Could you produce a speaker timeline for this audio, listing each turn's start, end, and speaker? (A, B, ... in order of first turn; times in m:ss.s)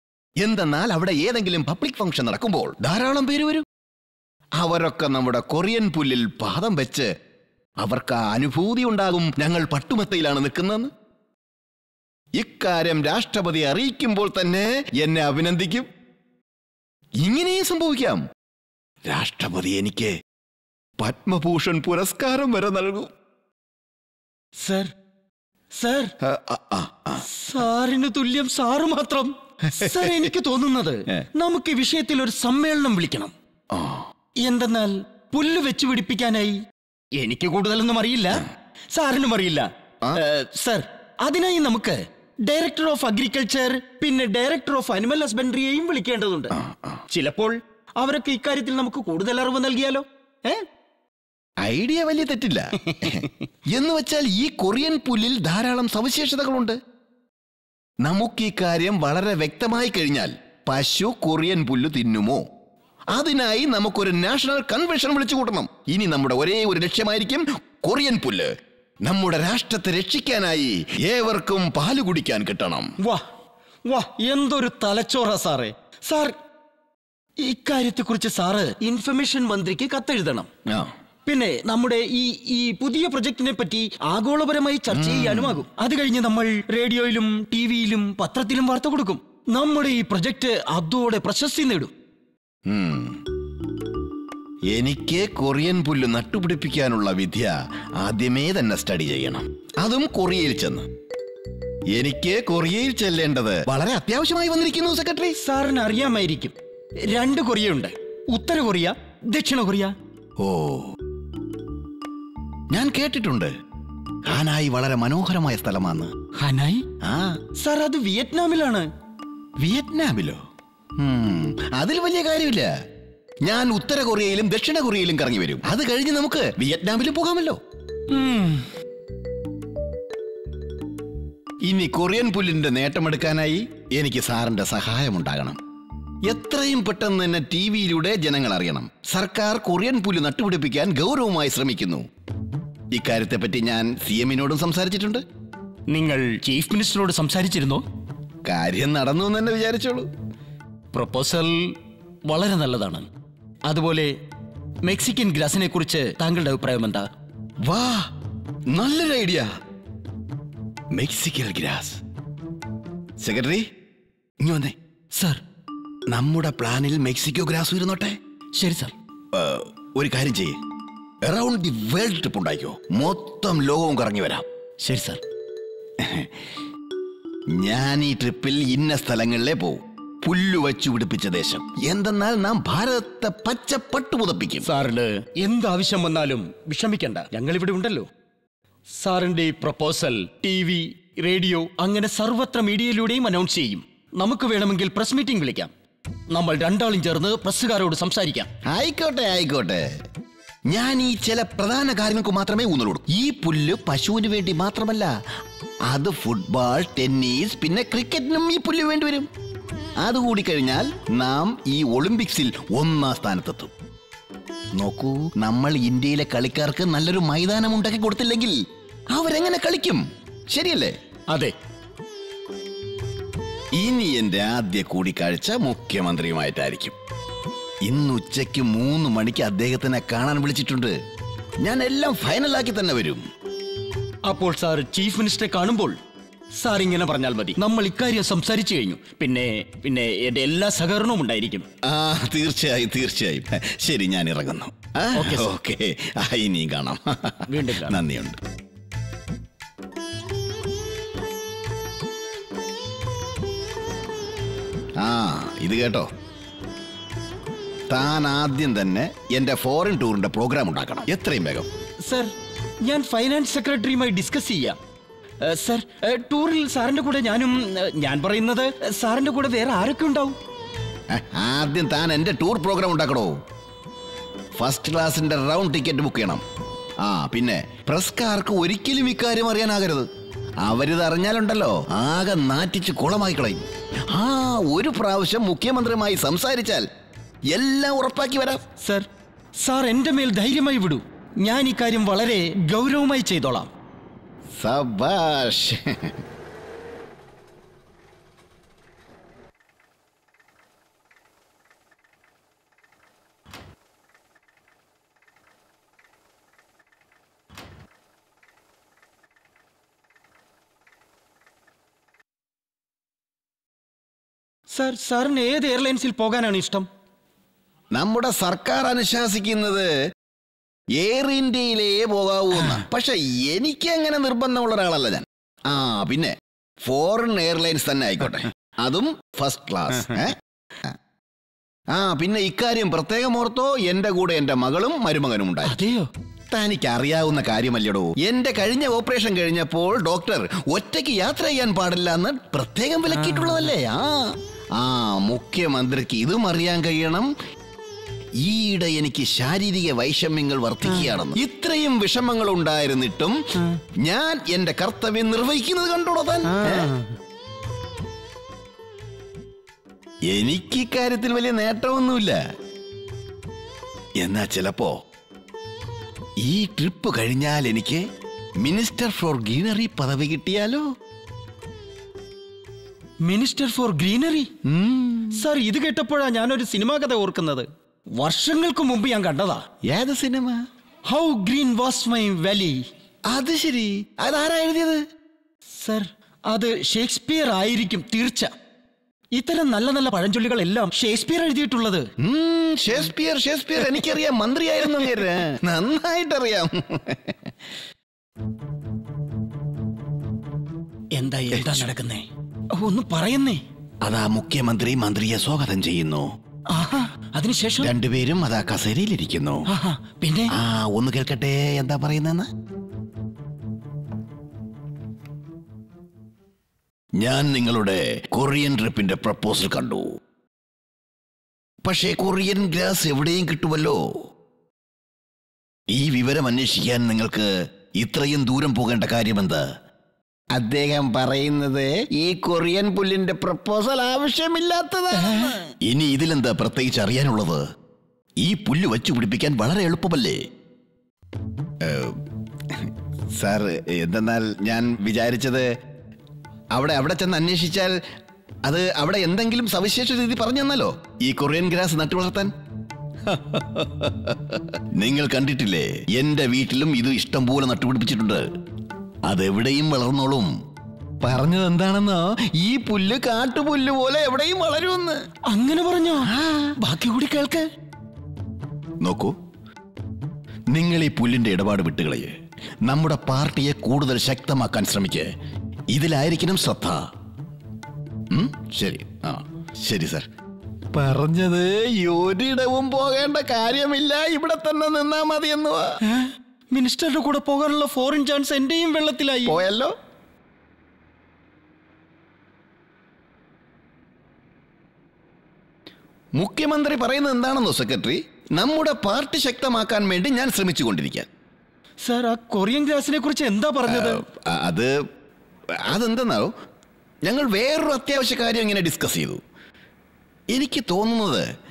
0:00.4-0:03.7 A
0:04.6-0:07.1 A
0:07.8-0:10.9 A
0:12.4-0:15.9 A
0:17.2-0:18.2 A
0:19.1-0:20.2 A
0:21.0-0:23.1 A
0:24.6-0:24.9 B
0:25.8-0:26.1 B
0:26.2-0:27.3 A
0:27.2-0:33.3 B
0:29.7-0:30.3 A
0:33.7-0:34.1 A
0:34.4-0:36.6 B
0:37.2-0:50.6 B
0:46.5-0:47.0 A
0:51.6-0:56.8 A
0:52.8-0:53.3 B
0:58.0-1:02.4 A
1:03.1-1:08.5 A
1:09.0-1:12.9 A
1:13.9-1:16.4 B
1:17.4-1:20.5 B
1:20.7-1:20.9 A
1:21.3-1:31.9 B
1:24.9-1:25.6 A
1:32.7-1:33.2 A
1:34.7-1:40.9 A
1:41.9-1:45.4 A
1:45.4-1:50.0 B
1:50.4-1:51.0 A
1:52.7-1:53.5 A
1:54.2-1:56.2 A
1:56.3-1:56.9 B
1:57.0-1:57.4 A
1:57.6-1:58.9 B
1:59.6-2:00.4 A
2:01.0-2:02.7 A
2:03.4-2:07.6 A
2:08.1-2:08.7 B
2:11.7-2:15.6 A
2:16.3-2:22.1 A
2:22.9-2:25.2 A
2:25.9-2:27.8 B
2:28.4-2:30.1 A
2:30.9-2:31.8 B
2:32.3-2:33.1 B
2:33.7-2:34.1 B
2:34.8-2:37.1 B
2:37.6-2:38.1 A
2:38.7-2:39.5 A
2:40.9-2:42.0 A
2:43.2-2:43.7 A
2:44.4-2:44.8 A
2:45.2-2:45.4 B
2:46.1-2:48.2 A
2:48.6-2:48.9 B
2:49.3-2:50.6 A
2:51.2-2:54.5 A
2:54.8-2:55.2 B
2:56.0-2:56.4 A
2:57.5-3:04.7 A
3:04.6-3:08.1 B
3:09.0-3:15.7 B
3:16.3-3:18.5 B
3:18.6-3:19.9 A
3:20.7-3:25.2 A
3:25.9-3:29.3 A
3:30.0-3:33.7 A
3:34.8-3:38.6 A
3:39.1-3:41.0 A
3:43.8-3:47.0 A
3:47.8-3:51.0 A
3:51.6-3:53.2 A
3:54.3-3:56.0 B
3:56.6-4:01.7 B
4:01.8-4:08.4 A
4:05.1-4:05.5 B
4:07.5-4:08.0 B
4:15.0-4:16.1 A
4:17.9-4:21.7 A
4:22.0-4:24.8 B
4:25.4-4:30.4 B
4:31.1-4:33.4 A
4:34.6-4:36.4 A
4:37.0-4:40.1 A
4:40.6-4:46.9 A
4:47.5-4:48.6 A
4:48.8-4:49.1 B
4:49.6-4:53.7 B
4:54.6-4:56.2 A
5:14.7-5:16.9 B
5:17.9-5:20.0 A
5:21.0-5:31.0 A
5:31.9-5:35.8 A
5:35.6-5:36.1 B
5:36.5-5:47.3 A
5:43.1-5:43.7 B
5:48.4-5:56.9 A
5:50.9-5:51.1 B
5:56.4-5:57.2 B
6:00.3-6:02.4 A
6:04.2-6:05.0 A
6:06.4-6:08.0 A
6:08.6-6:10.9 A
6:13.2-6:14.5 B
6:14.6-6:15.5 A
6:15.3-6:17.7 B
6:18.2-6:19.6 B
6:19.8-6:20.6 A
6:21.1-6:22.8 B
6:23.3-6:25.0 A
6:25.7-6:28.5 B
6:29.4-6:32.1 B
6:32.2-6:37.6 A
6:41.1-6:43.6 B
6:41.5-6:41.9 A
6:44.0-6:46.3 A
6:46.7-6:47.9 B
6:47.8-6:49.7 A
6:49.7-6:50.5 B
6:50.5-6:52.5 A
6:57.2-7:00.2 A
7:01.8-7:04.2 A
7:05.9-7:09.7 A
7:10.5-7:17.6 A
7:15.2-7:15.6 B
7:18.4-7:20.4 A
7:21.8-7:25.7 A
7:26.7-7:28.0 A
7:28.7-7:32.5 A
7:33.2-7:38.5 A
7:39.3-7:40.5 A
7:41.2-7:45.2 A
7:45.5-7:47.7 B
7:46.2-7:46.7 A
7:49.0-7:49.4 A
7:50.7-7:52.3 A
7:52.8-7:55.3 A
7:55.9-7:57.1 A
7:58.3-8:00.3 A
8:00.9-8:06.0 A
8:06.0-8:09.6 B
8:09.5-8:09.9 A
8:16.4-8:21.3 A
8:22.0-8:24.2 B
8:23.9-8:24.9 A
8:25.8-8:26.5 A
8:27.2-8:29.4 A
8:30.5-8:31.5 A